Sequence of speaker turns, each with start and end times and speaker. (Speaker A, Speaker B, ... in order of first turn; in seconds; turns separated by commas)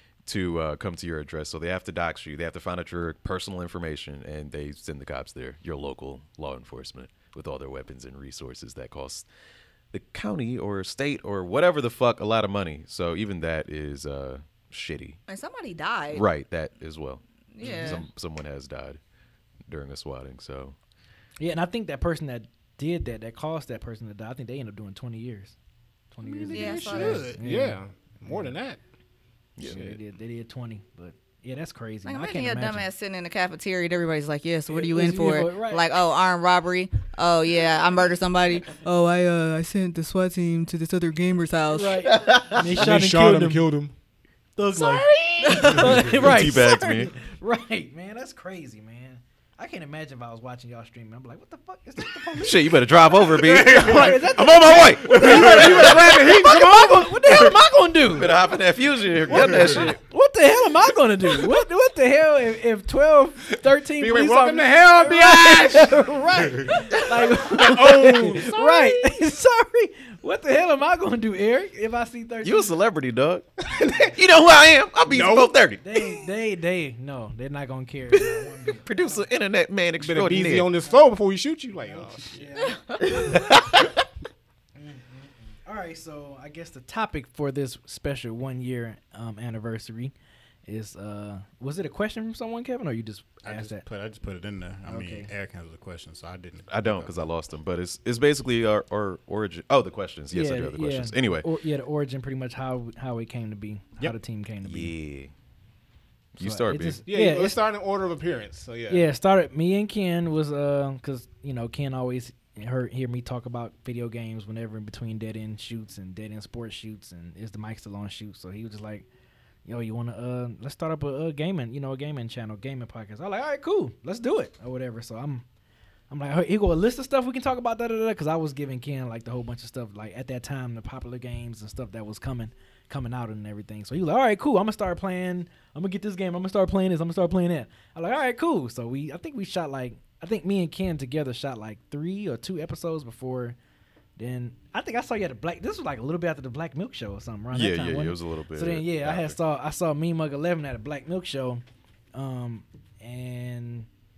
Speaker A: 0.3-9.3, Speaker A: 9.9-15.2, Speaker B: 15.3-16.2, Speaker A: 16.1-19.0, Speaker B: 17.5-18.0, Speaker A: 19.7-20.8, Speaker C: 21.4-25.6, Speaker C: 26.1-28.6, Speaker D: 26.2-27.4, Speaker B: 26.5-27.3, Speaker E: 27.4-28.8, Speaker A: 29.6-29.8, Speaker C: 29.6-32.9, Speaker E: 29.6-30.0, Speaker B: 32.0-42.1, Speaker C: 34.7-35.9, Speaker C: 41.7-43.6, Speaker A: 42.1-42.9, Speaker E: 42.8-43.9, Speaker C: 44.6-52.8, Speaker B: 44.8-45.9, Speaker A: 45.6-47.1, Speaker D: 45.8-46.1, Speaker A: 52.4-60.0, Speaker D: 53.5-54.0, Speaker C: 53.5-58.4, Speaker E: 55.1-56.9, Speaker D: 55.1-55.4, Speaker D: 59.3-59.9, Speaker C: 59.3-72.7, Speaker E: 64.0-66.1, Speaker D: 66.4-66.8, Speaker A: 67.0-69.1, Speaker E: 67.4-68.6, Speaker A: 72.4-76.1, Speaker E: 75.1-75.5, Speaker C: 75.8-79.3, Speaker A: 78.1-80.7, Speaker E: 80.0-82.4, Speaker C: 81.8-83.4, Speaker A: 83.0-84.0, Speaker C: 84.8-90.1, Speaker C: 90.7-93.8, Speaker D: 93.4-97.2, Speaker C: 94.8-95.3, Speaker A: 96.7-101.5, Speaker C: 100.3-104.9, Speaker A: 104.6-105.3, Speaker A: 106.3-107.0, Speaker C: 106.4-107.6, Speaker E: 107.1-109.1, Speaker C: 108.9-119.1, Speaker C: 119.7-125.5, Speaker C: 126.1-143.6, Speaker C: 144.2-151.6, Speaker A: 147.5-149.4, Speaker C: 152.1-153.9